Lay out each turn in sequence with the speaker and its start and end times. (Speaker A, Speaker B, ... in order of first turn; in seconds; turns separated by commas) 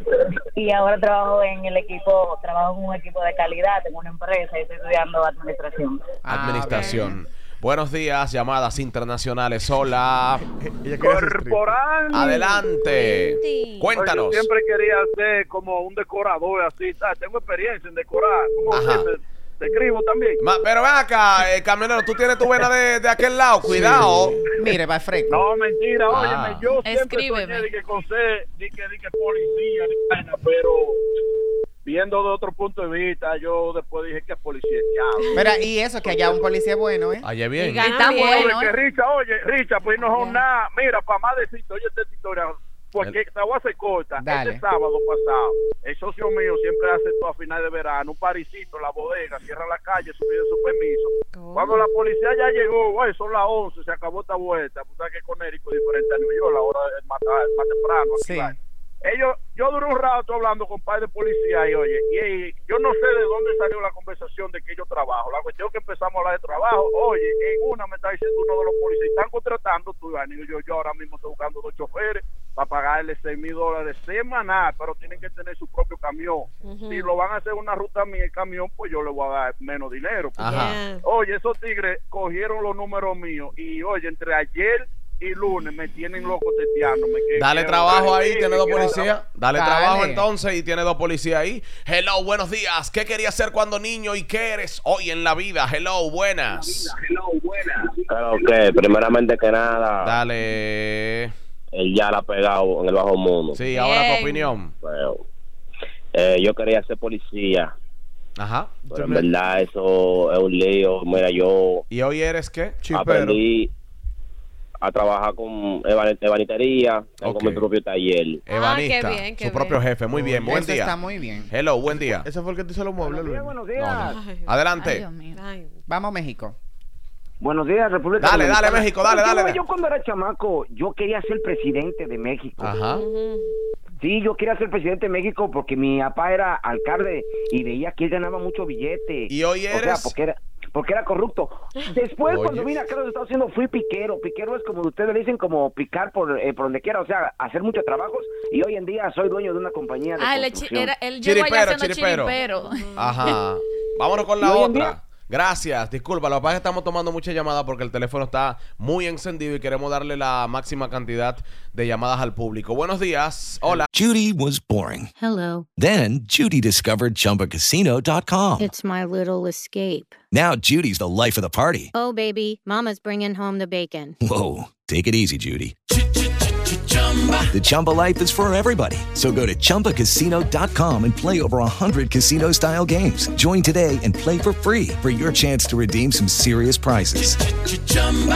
Speaker A: 0.6-6.1, Speaker B: 6.2-7.2, Speaker C: 6.3-10.4, Speaker D: 10.6-11.7, Speaker E: 11.0-12.6, Speaker C: 12.1-14.4, Speaker F: 12.7-13.9, Speaker E: 13.9-20.4, Speaker C: 18.7-19.1, Speaker C: 20.4-24.4, Speaker D: 23.6-24.4, Speaker B: 24.6-25.4, Speaker E: 25.3-31.0, Speaker C: 26.1-26.6, Speaker G: 26.8-27.7, Speaker E: 31.8-35.4, Speaker B: 35.3-37.3, Speaker E: 36.0-36.4, Speaker C: 37.2-37.9, Speaker G: 37.6-38.8, Speaker F: 37.6-38.5, Speaker E: 38.1-89.1, Speaker F: 40.0-40.4, Speaker B: 44.2-44.6, Speaker F: 51.3-51.8, Speaker B: 58.2-58.5, Speaker F: 76.6-77.1, Speaker C: 80.4-80.7, Speaker F: 80.4-81.0, Speaker C: 87.3-96.8, Speaker B: 89.5-90.2, Speaker H: 98.1-100.1, Speaker C: 100.0-101.3, Speaker H: 101.7-103.6, Speaker C: 103.5-104.7, Speaker F: 103.7-104.5, Speaker H: 104.8-105.2, Speaker H: 106.1-107.7, Speaker C: 108.4-108.8, Speaker H: 108.9-111.8, Speaker D: 108.9-109.3, Speaker C: 111.9-112.8, Speaker D: 112.8-113.4, Speaker H: 112.9-113.7, Speaker H: 114.8-118.4, Speaker C: 117.2-117.6, Speaker C: 118.5-120.9, Speaker F: 118.5-119.8, Speaker D: 120.1-120.5, Speaker B: 120.4-121.5, Speaker C: 121.5-122.2, Speaker D: 122.2-123.5, Speaker I: 123.0-124.1, Speaker C: 123.8-125.0, Speaker F: 124.0-124.5, Speaker G: 124.8-125.4, Speaker F: 125.3-125.8, Speaker B: 125.9-126.6, Speaker I: 127.4-132.7, Speaker C: 128.2-129.6, Speaker C: 132.6-133.0, Speaker F: 132.9-133.5, Speaker I: 134.0-150.9, Speaker C: 139.3-140.1, Speaker C: 142.2-142.8, Speaker G: 150.2-153.4, Speaker C: 151.2-152.3, Speaker F: 152.3-153.3, Speaker C: 152.9-163.9, Speaker I: 154.4-154.9, Speaker J: 163.9-165.1, Speaker K: 165.2-165.7, Speaker J: 165.7-168.7, Speaker K: 168.6-170.2, Speaker J: 170.3-171.9, Speaker K: 171.9-174.2, Speaker J: 174.2-175.7, Speaker J: 177.5-187.5